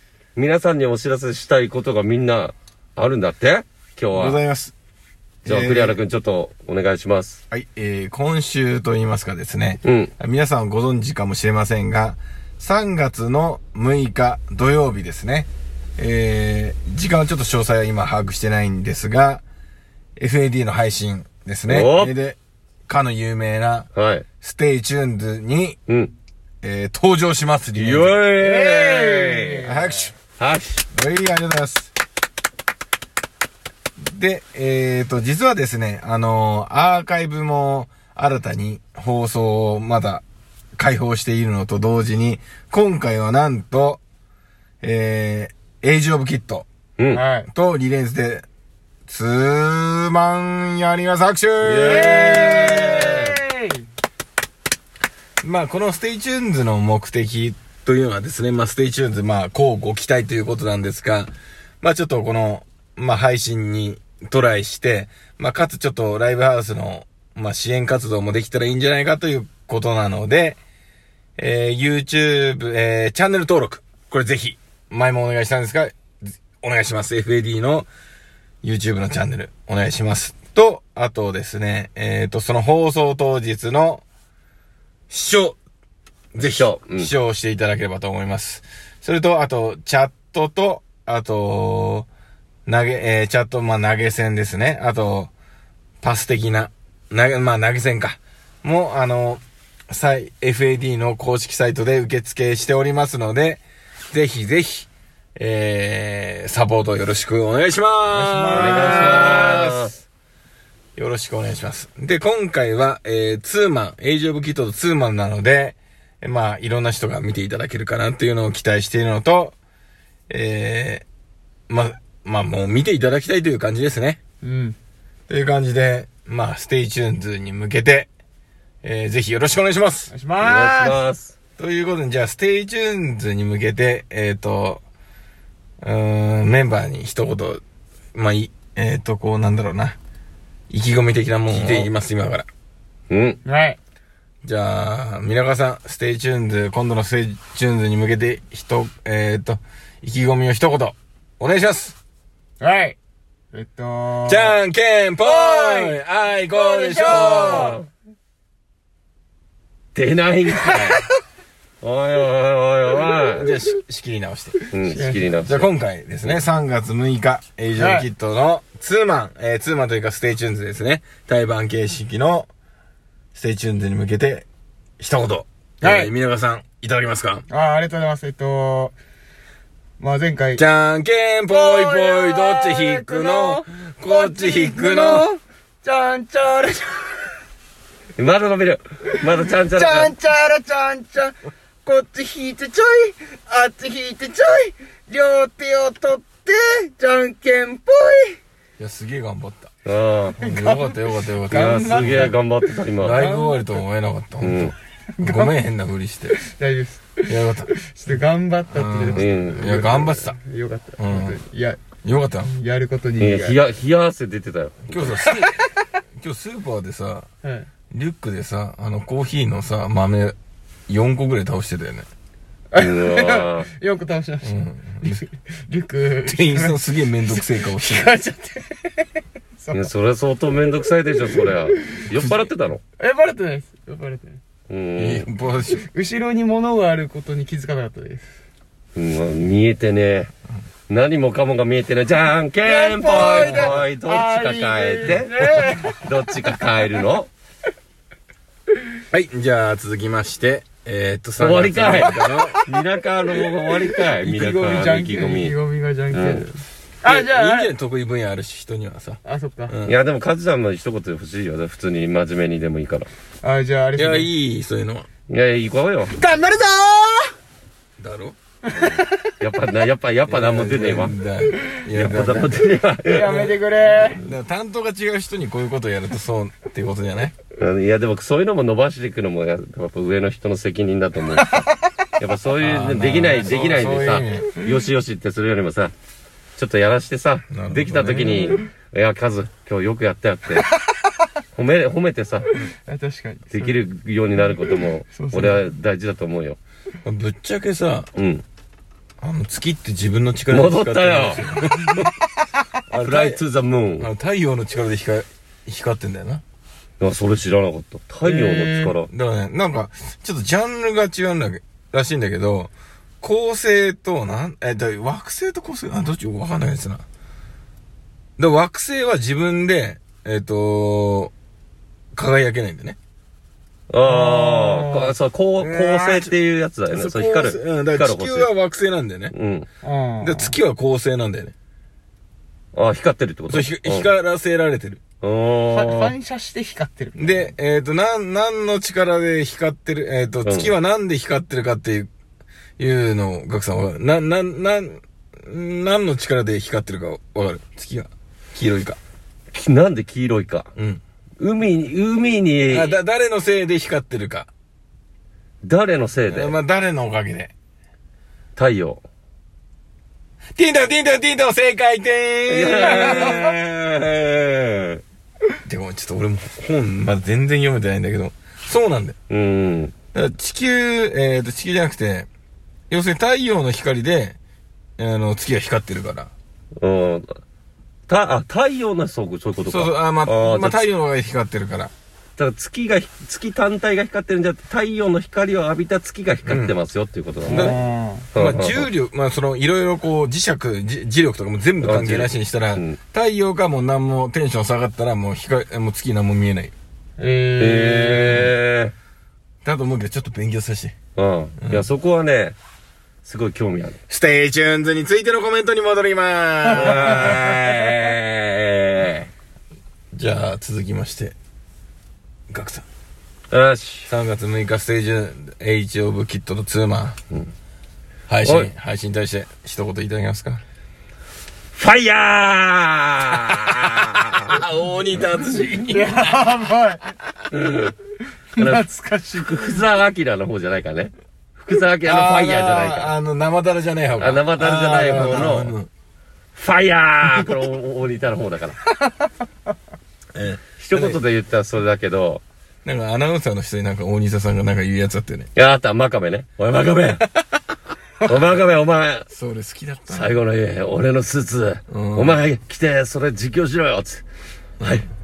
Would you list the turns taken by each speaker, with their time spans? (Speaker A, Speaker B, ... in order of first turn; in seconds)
Speaker A: 0.3-4.4, 5.5-7.4, 9.8-10.1, 21.7-22.1, 23.9-24.2, 25.9-26.1, 27.8-29.6, 30.4-30.8, 51.6-53.3, 86.4-87.1, 108.5-109.9, 130.4-131.3, 141.5-141.8, 143.1-143.4, 157.1-157.9, 159.9-161.0, 161.8-163.5, 164.7-165.7, 188.2-190.1, 199.8-200.4, 201.5-203.2, 204.4-204.7, 209.1-209.8, 213.2-215.1, 222.8-223.7, 229.7-232.8, 234.7-235.3, 238.9-240.3, 240.9-247.3, 251.4-255.5, 256.1-256.5, 259.9-263.1, 265.3-266.1, 268.8-271.2, 271.9-273.4, 277.6-285.9, 286.6-290.7, 291.5-292.5, 293.5-296.6, 298.1-298.4, 300.5-301.4, 302.9-304.1, 307.0-309.1, 323.9-328.5, 329.3-329.7, 332.7-334.1, 335.2-336.1, 340.4-340.7, 349.5-350.7, 351.4-352.9, 355.6-356.5, 358.6-359.0, 362.5-363.5, 364.2-365.0, 369.3-369.9, 376.8-377.4, 378.1-380.8, 382.4-387.7, 388.3-388.9, 391.8-393.0, 397.6-398.9, 401.1-402.6, 403.2-404.0, 406.7-409.3, 413.5-414.1, 418.4-418.7, 421.7-424.6, 427.5-427.9, 428.6-433.1, 434.2-435.7, 436.5-438.8, 440.8-442.4, 445.6-447.2, 448.2-449.3, 450.1-454.2
Speaker B: 4.1-4.7, 5.4-6.0, 7.5-19.4, 20.2-23.9, 24.4-25.8, 26.6-28.2, 29.6-30.1, 30.9-31.9, 34.0-40.2, 40.8-44.0, 44.8-46.6, 47.5-48.5, 49.1-53.4, 55.4-70.6, 71.4-77.9, 78.6-84.0, 85.1-85.6, 86.3-92.1, 92.7-95.3, 96.0-109.9, 111.0-119.5, 120.3-121.0, 121.7-124.2, 125.3-128.1, 128.8-130.1, 131.6-134.8, 135.8-137.6, 138.1-140.0, 140.7-142.5, 144.4-151.9, 154.2-157.8, 163.3-164.6, 165.4-172.5, 173.3-174.4, 175.0-177.4, 180.6-185.3, 198.8-199.7, 200.4-202.3, 203.0-206.4, 207.2-207.7, 208.7-210.4, 211.0-211.4, 212.0-212.5, 214.9-215.6, 216.2-217.3, 217.9-220.3, 220.9-222.1, 224.4-225.2, 226.2-228.1, 232.1-232.5, 235.0-235.9, 243.2-243.7, 249.1-252.6, 257.0-259.9, 263.9-265.1, 268.0-268.4, 270.3-273.6, 274.2-277.4, 282.6-284.5, 287.5-288.6, 297.0-298.1, 299.2-302.1, 302.9-303.4, 304.0-306.4, 309.1-317.0, 318.4-321.3, 322.1-323.0, 325.6-326.3, 326.9-329.3, 330.2-331.5, 333.5-335.0, 337.2-342.1, 342.8-349.0, 350.8-351.0, 352.7-354.5, 356.3-357.5, 360.6-364.2, 365.6-369.2, 370.1-372.3, 372.9-374.4, 375.0-376.3, 379.6-381.9, 386.4-386.7, 387.5-387.8, 388.3-396.7, 399.6-400.9, 401.6-401.9, 404.1-408.0, 410.1-411.3, 412.5-412.9, 414.1-417.2, 418.3-420.6, 424.4-426.5, 432.0-435.9, 440.3-441.2, 442.8-445.5, 449.3-450.4, 451.9-452.4
Speaker C: 28.3-30.0, 47.1-47.5, 51.8-53.9, 108.1-109.6, 124.4-124.8, 130.1-131.0, 143.4-143.8, 152.6-152.9, 153.5-154.6, 155.2-156.0, 156.5-157.8, 164.8-165.3, 167.8-168.1, 175.8-176.1, 177.5-178.9, 180.0-180.6, 181.5-187.4, 189.7-198.4, 200.4-203.8, 205.2-205.6, 206.3-213.6, 215.2-215.7, 217.4-217.7, 222.7-229.9, 233.0-234.4, 235.8-238.3, 242.6-246.1, 252.0-252.5, 253.9-257.7, 259.2-259.8, 263.4-264.3, 266.1-267.3, 268.6-269.3, 273.1-274.2, 281.4-281.7, 288.3-288.6, 292.6-293.8, 295.1-295.6, 308.2-308.9, 324.0-325.1, 329.8-330.5, 335.7-337.4, 387.5-388.3, 397.2-398.5, 406.8-407.4, 425.9-427.0, 428.5-429.8